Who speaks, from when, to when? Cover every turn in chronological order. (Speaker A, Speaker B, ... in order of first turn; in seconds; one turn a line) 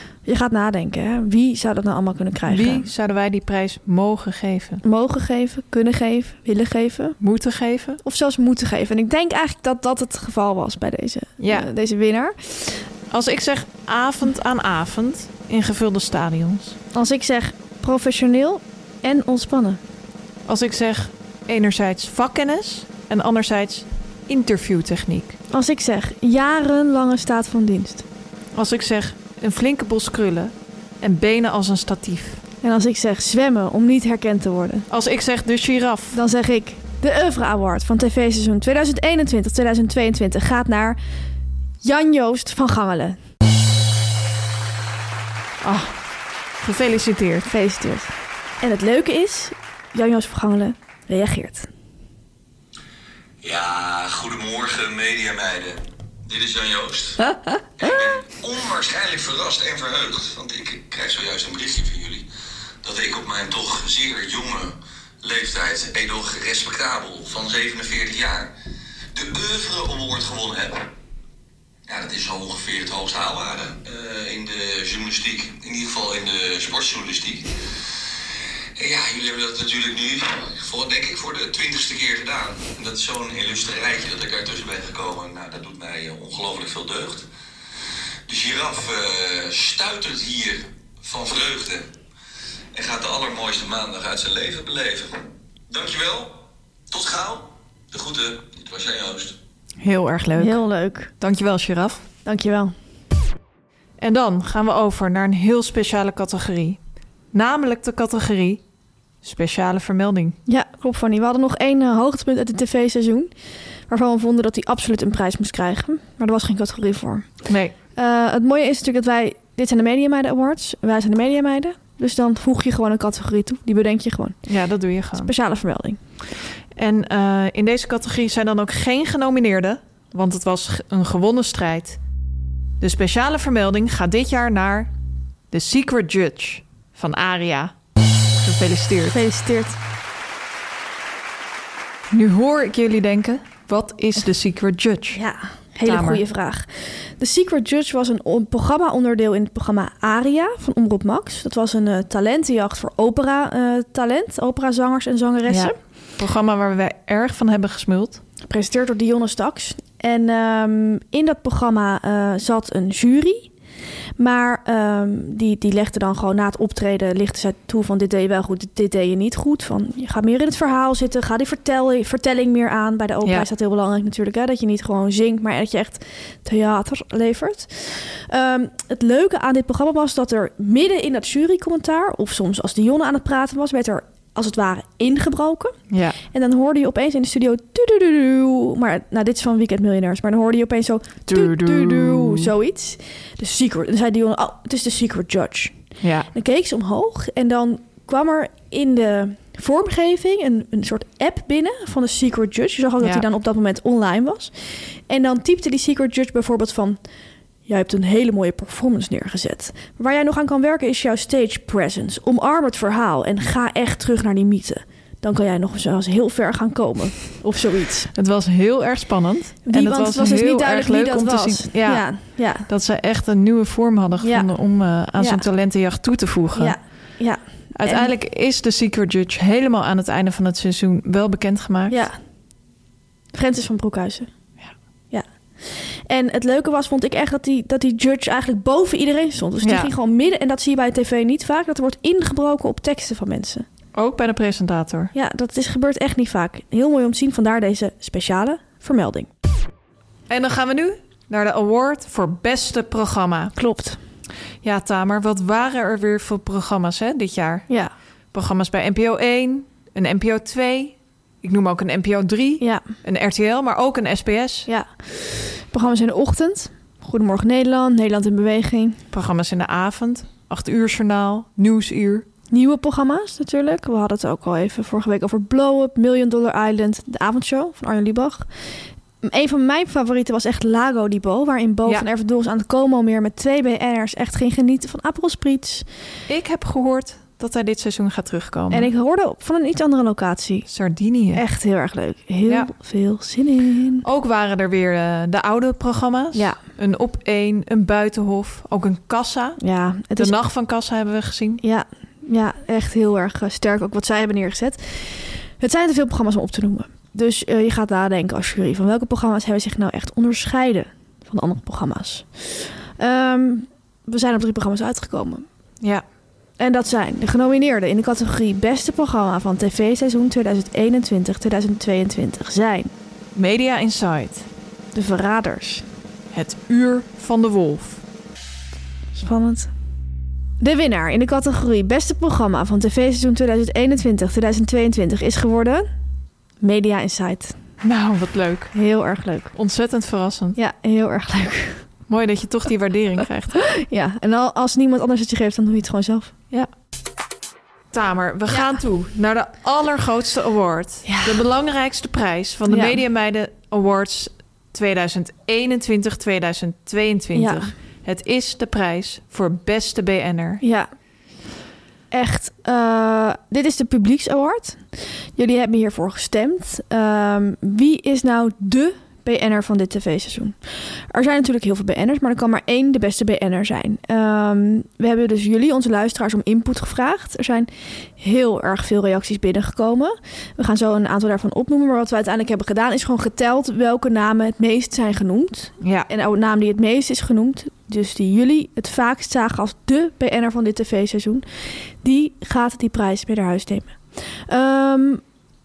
Speaker A: 0.2-2.9
Speaker B: 2.5-4.8
Speaker A: 4.8-7.2
Speaker B: 7.2-8.0
Speaker A: 8.0-12.8
Speaker B: 11.4-11.7
Speaker B: 13.1-16.8
Speaker A: 16.9-19.8
Speaker B: 20.5-25.4
Speaker A: 25.5-28.0
Speaker B: 28.5-32.4
Speaker A: 32.6-34.9
Speaker B: 34.9-36.2
Speaker A: 36.1-41.0
Speaker A: 41.8-43.2
Speaker B: 45.6-46.0
Speaker B: 46.6-47.5
Speaker A: 47.5-51.7
Speaker C: 53.4-57.3
Speaker C: 57.8-62.3
Speaker C: 62.8-68.5
Speaker C: 69.1-70.9
Speaker C: 71.9-77.5
Speaker C: 78.8-87.3
Speaker C: 88.2-91.9
Speaker C: 92.7-99.4
Speaker B: 99.8-100.6
Speaker A: 100.4-101.1
Speaker B: 101.2-102.0
Speaker A: 102.2-102.7
Speaker B: 104.0-106.8
Speaker B: 107.3-108.6
Speaker B: 109.2-110.4
Speaker A: 110.5-113.3
Speaker A: 113.9-117.3
Speaker B: 117.5-117.7
Speaker A: 118.0-124.4
Speaker B: 124.5-125.3
Speaker A: 125.2-126.0
Speaker B: 126.8-132.0
Speaker B: 132.8-134.9
Speaker B: 135.5-137.7
Speaker B: 138.4-139.2
Speaker A: 139.1-139.8
Speaker B: 142.1-145.2
Speaker A: 145.1-155.7
Speaker B: 145.8-146.2
Speaker B: 155.5-158.2
Speaker A: 158.5-163.5
Speaker A: 164.2-185.7
Speaker B: 185.9-186.2
Speaker A: 186.3-195.8
Speaker B: 191.3-192.5
Speaker B: 196.0-196.3
Speaker A: 196.3-204.5
Speaker A: 205.1-207.0
Speaker A: 207.7-218.1
Speaker B: 218.1-226.8
Speaker A: 219.7-222.7
Speaker A: 224.2-224.5
Speaker A: 225.2-225.4
Speaker A: 226.6-228.1
Speaker B: 227.7-232.0
Speaker A: 231.9-232.1
Speaker A: 233.3-234.3
Speaker A: 235.1-243.7
Speaker B: 239.6-239.9
Speaker B: 243.9-245.1
Speaker A: 245.1-249.3
Speaker B: 250.3-253.5
Speaker A: 253.6-254.0
Speaker B: 254.6-257.7
Speaker B: 258.3-264.7
Speaker A: 262.6-262.8
Speaker A: 264.7-269.0
Speaker B: 269.1-272.2
Speaker A: 272.5-278.5
Speaker A: 279.2-285.9
Speaker B: 286.3-288.9
Speaker A: 288.7-290.6
Speaker B: 290.7-291.4
Speaker A: 291.3-294.0
Speaker B: 292.5-292.7
Speaker B: 294.0-299.6
Speaker A: 296.3-296.6
Speaker A: 299.6-300.3
Speaker B: 300.1-301.6
Speaker A: 301.6-315.4
Speaker A: 316.6-322.9
Speaker B: 323.3-324.5
Speaker A: 324.9-325.8
Speaker B: 326.3-328.0
Speaker A: 329.1-329.7
Speaker A: 330.6-335.9
Speaker A: 336.6-337.5
Speaker B: 337.8-338.7
Speaker A: 338.7-339.5
Speaker B: 339.5-340.6
Speaker A: 340.6-341.8
Speaker B: 342.1-343.5
Speaker A: 343.6-346.3
Speaker B: 347.9-360.6
Speaker A: 348.5-348.8
Speaker A: 351.1-351.4
Speaker A: 352.7-353.0
Speaker A: 357.3-357.7
Speaker A: 360.6-360.9
Speaker A: 362.1-370.6
Speaker A: 371.1-395.2
Speaker B: 385.8-386.1